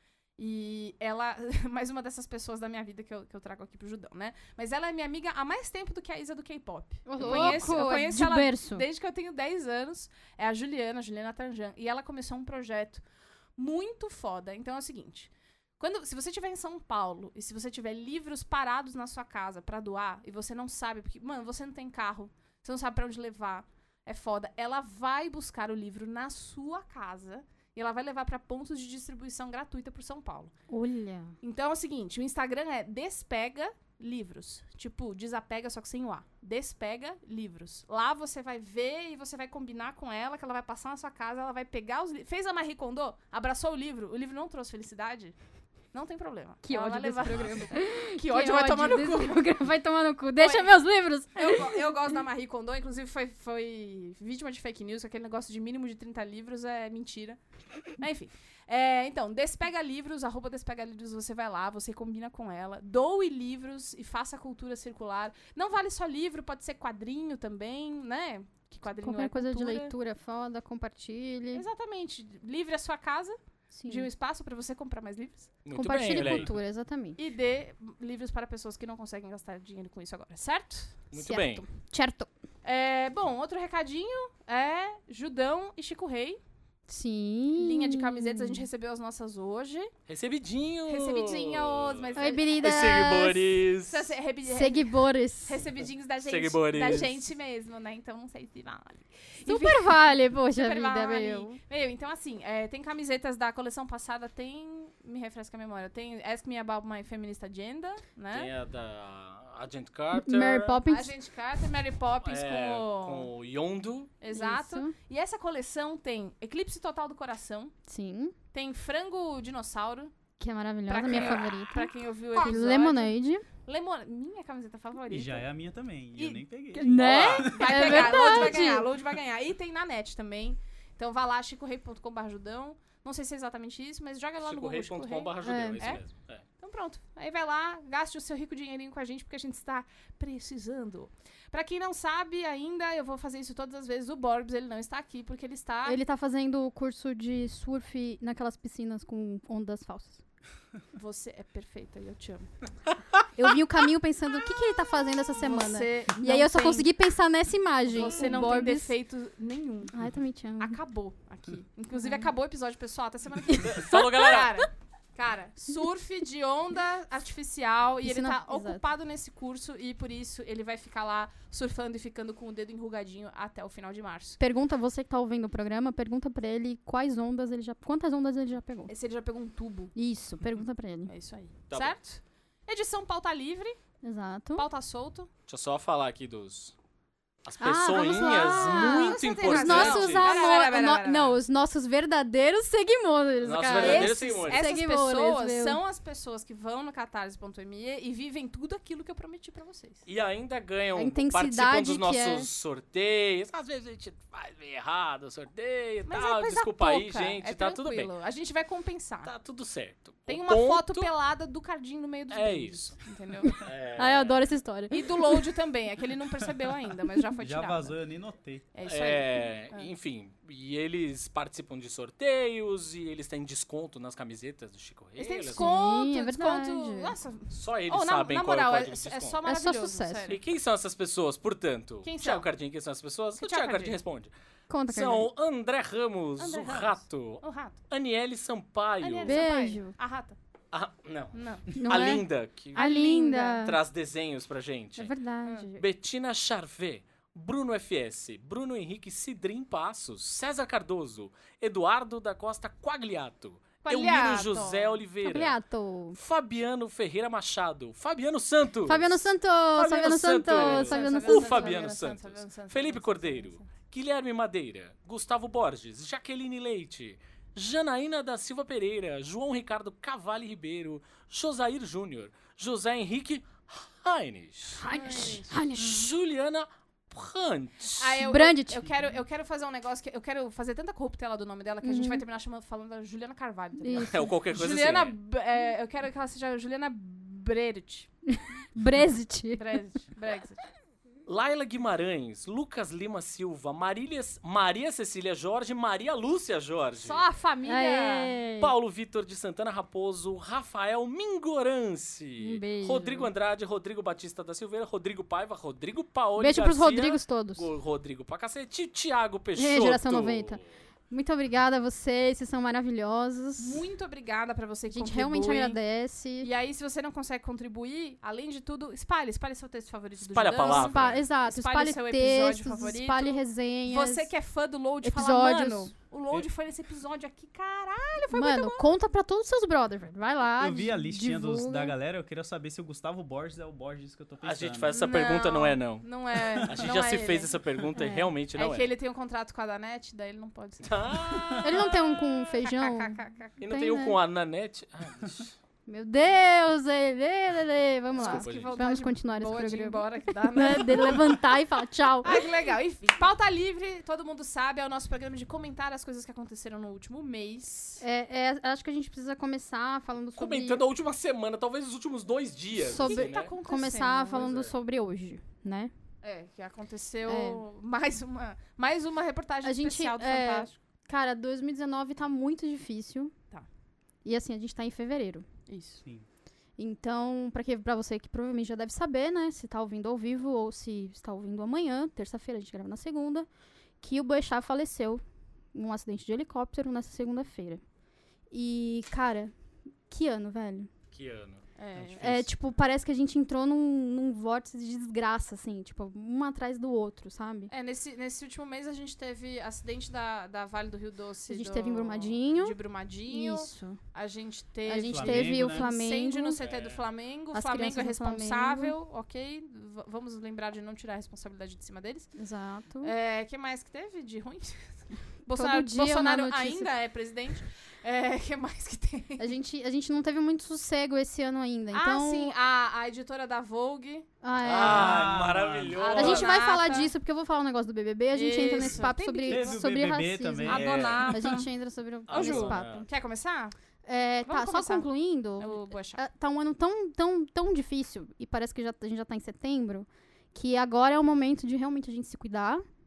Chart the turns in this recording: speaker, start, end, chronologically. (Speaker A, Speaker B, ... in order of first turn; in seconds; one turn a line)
Speaker A: 0.4-13.0
Speaker B: 7.0-8.8
Speaker C: 7.2-7.8
Speaker A: 13.6-30.5
Speaker B: 30.7-31.4
Speaker A: 31.4-45.3
Speaker A: 45.9-49.4
Speaker B: 46.6-51.9
Speaker A: 50.4-50.7
Speaker A: 51.3-69.9
Speaker B: 68.9-71.6
Speaker A: 71.5-75.5
Speaker B: 73.7-74.1
Speaker C: 75.6-76.5
Speaker B: 75.7-77.2
Speaker A: 77.2-81.0
Speaker C: 81.1-81.7
Speaker B: 81.1-82.3
Speaker A: 82.6-86.4
Speaker B: 86.9-88.7
Speaker A: 87.5-89.9
Speaker C: 90.1-94.1
Speaker A: 90.8-92.5
Speaker B: 92.2-93.4
Speaker A: 93.8-108.5
Speaker B: 94.5-95.6
Speaker C: 96.2-97.2
Speaker B: 99.5-101.6
Speaker C: 108.3-110.8
Speaker B: 110.1-111.1
Speaker A: 110.9-113.3
Speaker C: 112.2-114.1
Speaker A: 114.2-117.7
Speaker B: 114.3-114.9
Speaker B: 117.9-118.3
Speaker A: 118.5-120.1
Speaker B: 120.4-123.5
Speaker A: 120.8-125.5
Speaker D: 125.1-127.9
Speaker B: 126.7-128.9
Speaker C: 126.9-128.3
Speaker A: 127.0-136.0
Speaker C: 134.4-136.4
Speaker B: 135.4-135.9
Speaker A: 136.6-146.0
Speaker B: 145.8-150.2
Speaker A: 150.9-152.5
Speaker B: 153.3-158.9
Speaker A: 155.4-156.9
Speaker A: 157.9-159.9
Speaker B: 159.9-160.8
Speaker A: 160.6-174.4
Speaker B: 161.9-162.3
Speaker C: 163.6-164.6
Speaker B: 163.7-164.1
Speaker B: 168.0-168.8
Speaker B: 174.4-178.9
Speaker A: 178.9-179.9
Speaker B: 179.9-181.1
Speaker A: 181.1-183.8
Speaker C: 181.7-182.0
Speaker B: 184.0-184.7
Speaker A: 184.6-185.3
Speaker C: 185.5-186.7
Speaker C: 187.4-190.4
Speaker B: 187.6-195.8
Speaker A: 187.9-191.4
Speaker C: 193.4-194.7
Speaker A: 193.7-200.1
Speaker C: 200.1-208.1
Speaker B: 200.9-202.5
Speaker A: 206.1-209.3
Speaker C: 209.2-211.1
Speaker A: 210.3-213.5
Speaker C: 212.3-212.9
Speaker B: 213.4-215.5
Speaker C: 213.6-214.4
Speaker A: 214.9-218.0
Speaker D: 217.4-218.6
Speaker A: 218.7-219.9
Speaker C: 218.8-225.7
Speaker A: 225.2-230.4
Speaker B: 225.5-227.1
Speaker C: 227.5-229.4
Speaker B: 229.4-230.3
Speaker C: 230.3-234.3
Speaker A: 232.0-232.5
Speaker A: 233.4-234.0
Speaker B: 234.7-235.3
Speaker C: 234.9-239.4
Speaker A: 236.4-237.8
Speaker A: 239.0-240.4
Speaker B: 239.2-239.9
Speaker C: 240.7-242.9
Speaker A: 241.3-242.2
Speaker B: 241.8-243.8
Speaker A: 242.7-243.6
Speaker C: 243.6-245.1
Speaker B: 245.0-245.8
Speaker A: 245.4-245.7
Speaker C: 245.8-255.6
Speaker A: 253.8-255.0
Speaker B: 255.2-256.2
Speaker C: 256.1-274.9
Speaker B: 258.9-261.8
Speaker A: 260.5-263.7
Speaker B: 274.8-276.1
Speaker A: 274.9-275.6
Speaker C: 275.7-278.2
Speaker A: 278.0-288.1
Speaker B: 278.2-278.9
Speaker B: 281.8-282.2
Speaker B: 283.8-284.3
Speaker C: 284.0-285.1
Speaker B: 288.3-289.7
Speaker A: 289.6-290.6
Speaker C: 291.2-297.2
Speaker A: 296.9-298.4
Speaker B: 297.6-298.7
Speaker C: 298.6-310.7
Speaker B: 302.4-303.3
Speaker B: 306.4-307.7
Speaker B: 309.6-310.6
Speaker B: 311.1-313.8
Speaker A: 313.6-315.8
Speaker B: 314.9-316.5
Speaker A: 316.4-328.9
Speaker C: 320.2-321.2
Speaker B: 320.6-324.3
Speaker B: 325.0-325.9
Speaker B: 328.3-331.9
Speaker D: 330.6-334.9
Speaker C: 334.4-336.1
Speaker A: 334.9-337.5
Speaker C: 336.6-338.9
Speaker B: 337.9-338.3
Speaker A: 338.5-341.6
Speaker C: 340.8-342.2
Speaker B: 341.6-343.2
Speaker A: 342.5-343.6
Speaker C: 343.6-345.5
Speaker B: 343.7-344.1
Speaker B: 345.9-352.4
Speaker A: 348.1-351.5
Speaker C: 348.2-348.7
Speaker A: 352.2-358.0
Speaker B: 358.0-360.8
Speaker C: 360.4-363.5
Speaker B: 362.8-365.9
Speaker A: 363.0-364.6
Speaker C: 364.3-364.7
Speaker A: 366.2-370.8
Speaker B: 367.2-367.6
Speaker B: 369.6-373.3
Speaker B: 374.2-375.4
Speaker A: 375.7-376.0
Speaker B: 376.8-383.5
Speaker B: 384.0-385.2
Speaker B: 385.7-387.8
Speaker B: 388.5-389.5
Speaker B: 390.1-390.9
Speaker C: 391.1-391.6
Speaker A: 391.8-392.2
Speaker D: 391.9-392.5
Speaker B: 392.2-397.7
Speaker A: 397.7-412.3
Speaker B: 401.5-404.0
Speaker B: 404.9-406.6
Speaker D: 405.1-405.9
Speaker C: 406.6-407.0
Speaker B: 407.5-408.9
Speaker B: 412.4-413.1
Speaker A: 413.0-419.5
Speaker B: 415.5-416.9
Speaker B: 419.4-422.5
Speaker A: 421.9-424.3
Speaker B: 424.4-425.4
Speaker C: 424.6-426.5
Speaker D: 424.7-426.4
Speaker A: 425.9-427.1
Speaker B: 426.1-433.1
Speaker A: 428.3-429.8
Speaker D: 429.5-431.4
Speaker A: 430.6-431.7
Speaker C: 430.9-431.3
Speaker C: 432.3-433.1
Speaker A: 432.3-433.7
Speaker B: 434.0-442.8
Speaker A: 434.4-435.1
Speaker A: 435.6-436.2